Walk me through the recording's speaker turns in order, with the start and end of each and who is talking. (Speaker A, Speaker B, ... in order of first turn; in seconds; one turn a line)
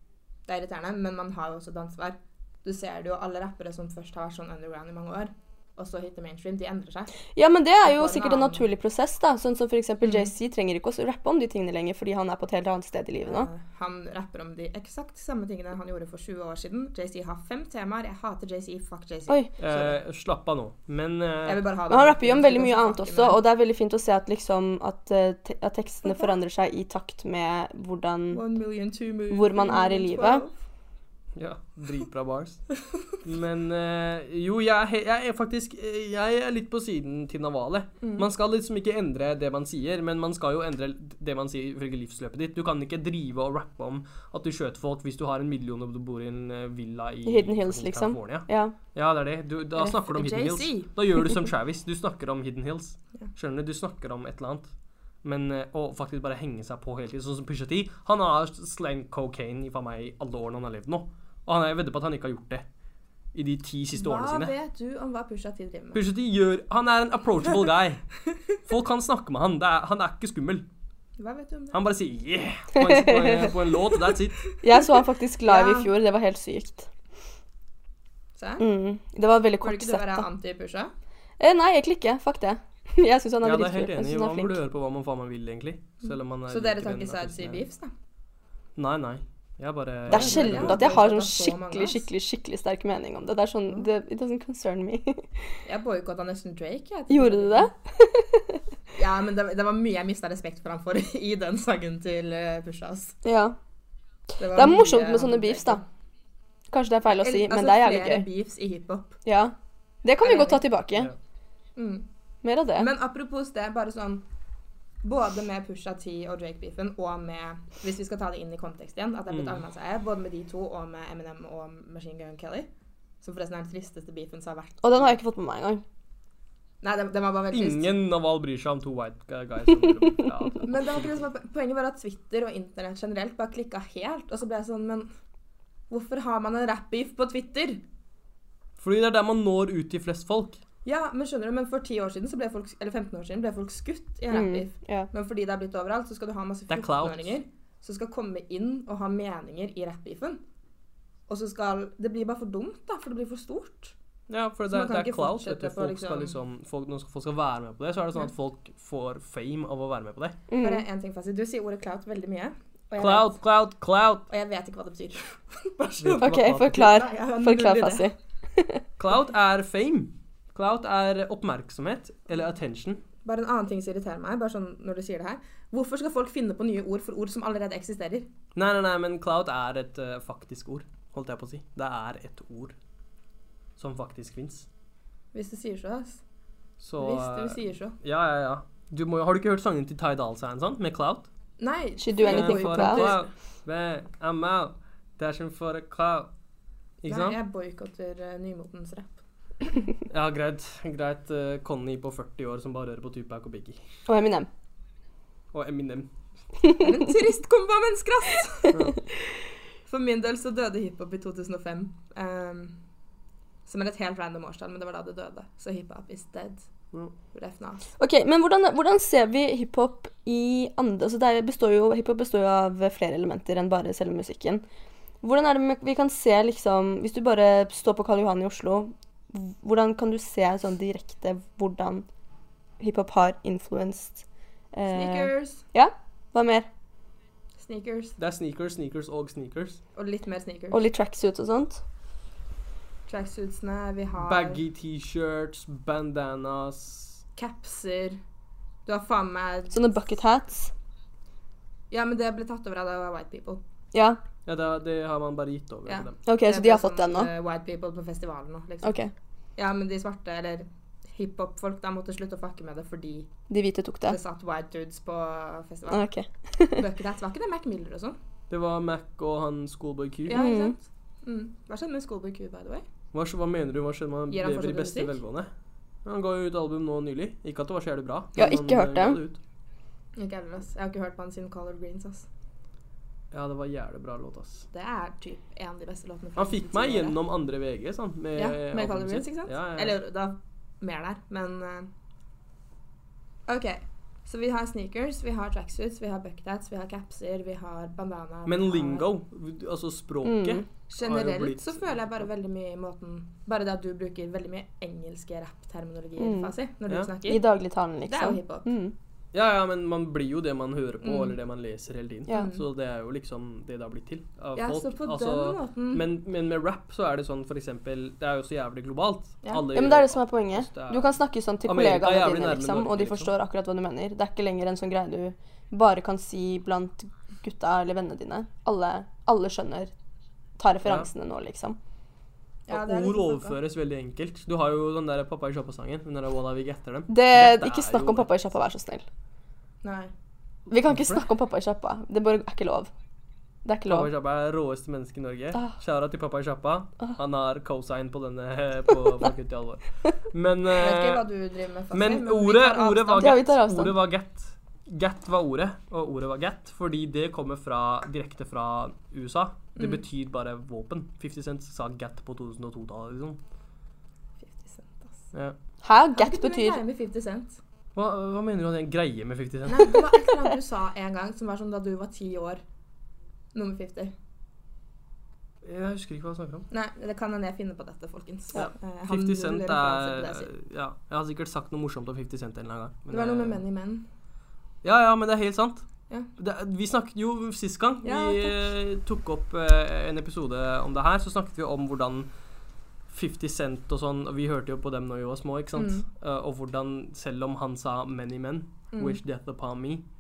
Speaker A: 0.5-7.2
Speaker B: 7.3-13.5
Speaker A: 7.8-8.7
Speaker A: 10.0-10.3
Speaker A: 13.2-20.0
Speaker C: 19.6-21.6
Speaker A: 21.4-23.4
Speaker B: 21.9-28.4
Speaker A: 26.1-26.3
Speaker A: 28.3-30.6
Speaker B: 29.3-30.4
Speaker C: 31.4-32.6
Speaker C: 33.2-54.7
Speaker B: 47.2-48.8
Speaker A: 49.8-50.9
Speaker C: 55.2-62.6
Speaker C: 63.3-64.5
Speaker A: 63.9-66.0
Speaker C: 65.9-70.7
Speaker A: 71.2-71.8
Speaker C: 71.7-74.5
Speaker B: 72.8-73.5
Speaker B: 74.6-76.9
Speaker A: 75.5-75.9
Speaker A: 78.4-78.7
Speaker B: 78.6-80.3
Speaker A: 79.6-80.9
Speaker B: 81.4-84.6
Speaker C: 83.4-87.6
Speaker A: 86.1-87.9
Speaker C: 88.8-91.0
Speaker A: 90.1-92.1
Speaker B: 90.1-95.5
Speaker A: 95.7-97.7
Speaker B: 97.1-98.6
Speaker A: 98.9-103.2
Speaker B: 103.2-103.6
Speaker A: 104.4-105.9
Speaker B: 104.4-105.8
Speaker B: 106.7-108.3
Speaker A: 107.2-109.2
Speaker B: 109.2-111.1
Speaker A: 110.2-110.6
Speaker A: 111.8-112.1
Speaker B: 112.4-112.9
Speaker A: 112.8-114.3
Speaker A: 115.0-122.7
Speaker C: 119.3-119.6
Speaker A: 123.2-125.2
Speaker B: 124.8-125.8
Speaker A: 126.8-127.9
Speaker C: 127.5-131.2
Speaker A: 130.7-135.1
Speaker A: 135.9-137.8
Speaker C: 138.8-140.6
Speaker A: 140.8-150.4
Speaker B: 144.3-145.1
Speaker C: 146.7-147.3
Speaker A: 151.3-153.9
Speaker C: 154.3-160.4
Speaker A: 154.7-156.4
Speaker B: 160.5-160.8
Speaker A: 160.6-163.4
Speaker C: 163.0-164.3
Speaker A: 164.3-168.1
Speaker C: 166.0-167.0
Speaker B: 166.2-168.8
Speaker C: 169.0-173.0
Speaker A: 173.2-178.3
Speaker C: 178.6-182.8
Speaker C: 183.8-184.7
Speaker A: 185.3-186.2
Speaker C: 186.8-191.3
Speaker A: 187.0-188.0
Speaker A: 191.6-193.3
Speaker B: 192.0-193.2
Speaker C: 192.2-196.3
Speaker C: 197.0-197.4
Speaker A: 197.1-199.2
Speaker C: 200.1-203.8
Speaker B: 204.1-204.5
Speaker C: 205.5-206.1
Speaker A: 206.8-208.8
Speaker C: 208.7-209.0
Speaker A: 209.9-212.8
Speaker A: 213.7-216.7
Speaker A: 217.3-217.9
Speaker B: 218.0-224.6
Speaker B: 225.2-232.1
Speaker B: 232.8-236.7
Speaker A: 234.9-235.7
Speaker A: 237.6-238.2
Speaker C: 238.2-239.8
Speaker A: 239.9-240.9
Speaker B: 240.7-241.8
Speaker A: 243.1-244.6
Speaker C: 244.2-247.2
Speaker A: 247.4-248.2
Speaker A: 248.9-250.1
Speaker B: 249.7-250.7
Speaker A: 251.9-253.6
Speaker B: 253.9-254.2
Speaker C: 254.4-256.2
Speaker A: 255.9-259.0
Speaker B: 256.3-257.3
Speaker B: 258.8-259.1
Speaker A: 259.6-263.3
Speaker B: 263.5-264.2
Speaker A: 264.1-266.1
Speaker B: 265.9-266.8
Speaker A: 266.7-268.2
Speaker C: 268.5-270.4
Speaker A: 270.3-272.9
Speaker B: 270.3-270.8
Speaker C: 273.1-275.5
Speaker A: 274.3-275.2
Speaker C: 276.1-279.4
Speaker B: 278.4-279.2
Speaker A: 280.2-282.3
Speaker C: 283.3-284.7
Speaker A: 284.7-287.2
Speaker C: 286.4-290.0
Speaker A: 288.4-291.9
Speaker A: 293.5-299.1
Speaker C: 298.5-302.3
Speaker B: 300.2-300.6
Speaker A: 300.9-307.4
Speaker B: 306.2-306.5
Speaker B: 307.2-308.9
Speaker A: 308.1-308.7
Speaker C: 309.3-321.1
Speaker A: 311.0-311.4
Speaker A: 312.3-312.6
Speaker A: 314.6-316.1
Speaker B: 319.7-329.9
Speaker C: 321.7-323.3
Speaker B: 330.6-331.8
Speaker A: 332.7-333.6
Speaker C: 332.7-338.3
Speaker B: 337.1-339.0
Speaker A: 339.8-340.1
Speaker B: 340.7-342.9
Speaker C: 340.9-341.2
Speaker B: 343.6-344.1
Speaker C: 343.9-351.2
Speaker A: 350.7-353.4
Speaker C: 351.9-363.4
Speaker B: 353.2-353.9
Speaker A: 359.8-360.0
Speaker A: 364.4-365.2
Speaker B: 365.8-366.8
Speaker A: 366.1-367.6
Speaker C: 367.9-370.1
Speaker A: 369.7-372.6
Speaker A: 373.5-374.1
Speaker C: 375.6-376.7
Speaker A: 376.7-380.5
Speaker C: 378.5-383.6
Speaker A: 383.1-384.1
Speaker C: 384.8-385.9
Speaker C: 386.4-392.3
Speaker A: 388.0-388.6
Speaker C: 393.1-400.1
Speaker A: 395.8-396.0
Speaker A: 398.9-399.2